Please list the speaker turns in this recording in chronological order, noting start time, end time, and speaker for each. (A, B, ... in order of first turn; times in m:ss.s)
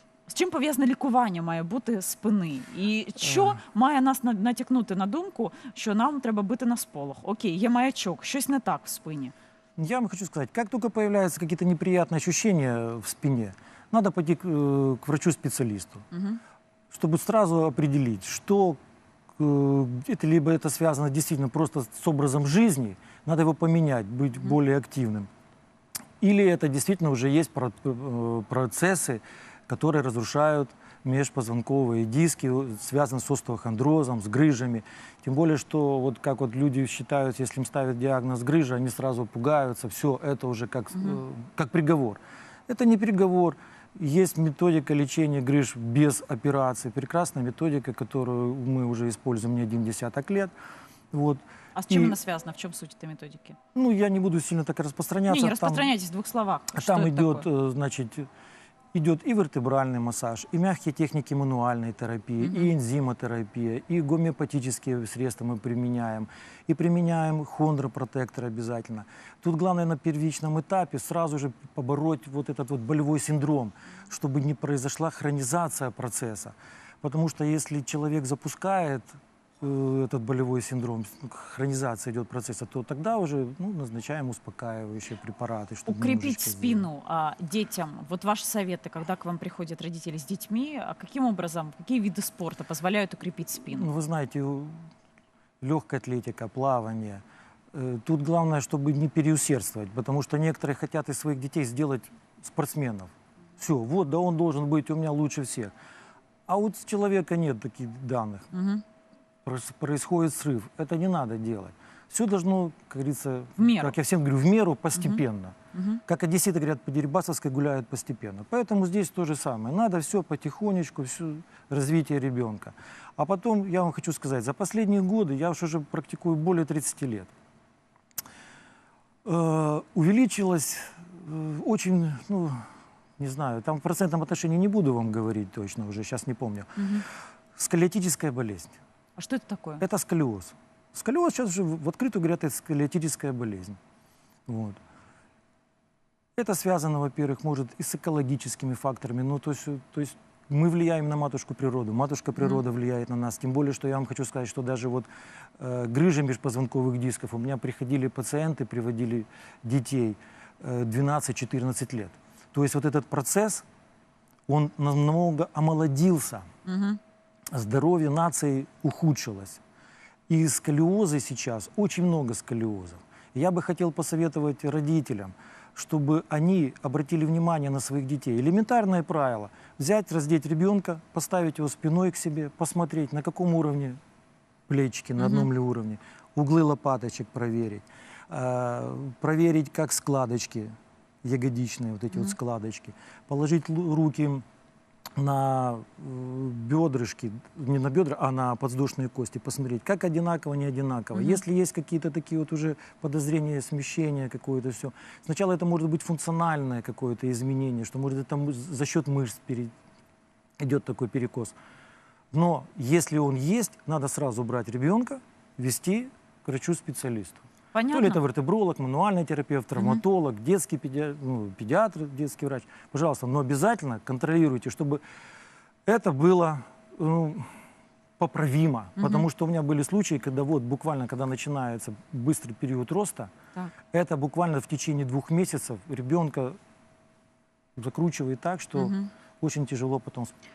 0:00.3-0:09.3 A
0:03.2-0:03.6 B
0:09.8-0:16.1 B
0:16.1-0:16.4 A
0:16.9-0:18.8 B
0:19.4-0:25.3 B
0:26.2-0:50.5 B
0:40.9-0:41.2 A
0:51.1-0:52.2 B
0:51.8-0:53.6 A
0:53.8-0:55.9 B
0:55.3-0:57.4 A
0:56.7-0:58.3 B
0:58.9-1:26.9 B
1:02.4-1:02.7 A
1:25.9-1:33.9 A
1:33.7-1:34.8 B
1:35.6-1:45.7 B
1:46.5-1:48.5 B
1:48.5-1:48.8 A
1:49.4-1:55.6 B
1:53.6-1:54.0 A
1:55.0-1:55.2 A
1:55.7-1:56.0 A
1:56.1-2:07.3 B
2:09.2-2:12.6 B
2:13.2-2:17.0 B
2:16.8-2:17.0 A
2:17.6-2:18.8 B
2:19.2-2:19.8 A
2:19.8-2:23.8 B
2:24.5-2:24.8 B
2:26.4-2:35.1 B
2:32.4-2:32.6 A
2:35.6-2:43.6 B
2:44.5-2:46.5 B
2:46.7-2:47.0 A
2:47.5-2:49.6 B
2:50.3-3:04.0 B
3:04.7-3:10.7 B
3:05.2-3:05.5 A
3:11.2-3:14.4 B
3:15.2-3:29.7 B
3:21.2-3:21.4 A
3:30.6-3:31.6 B
3:32.3-3:45.0 B
3:37.7-3:38.2 A
3:45.9-3:47.5 B
3:48.2-3:53.3 B
3:49.0-3:49.3 A
3:53.9-3:56.6 B
3:57.8-4:00.3 B
3:58.8-3:59.1 A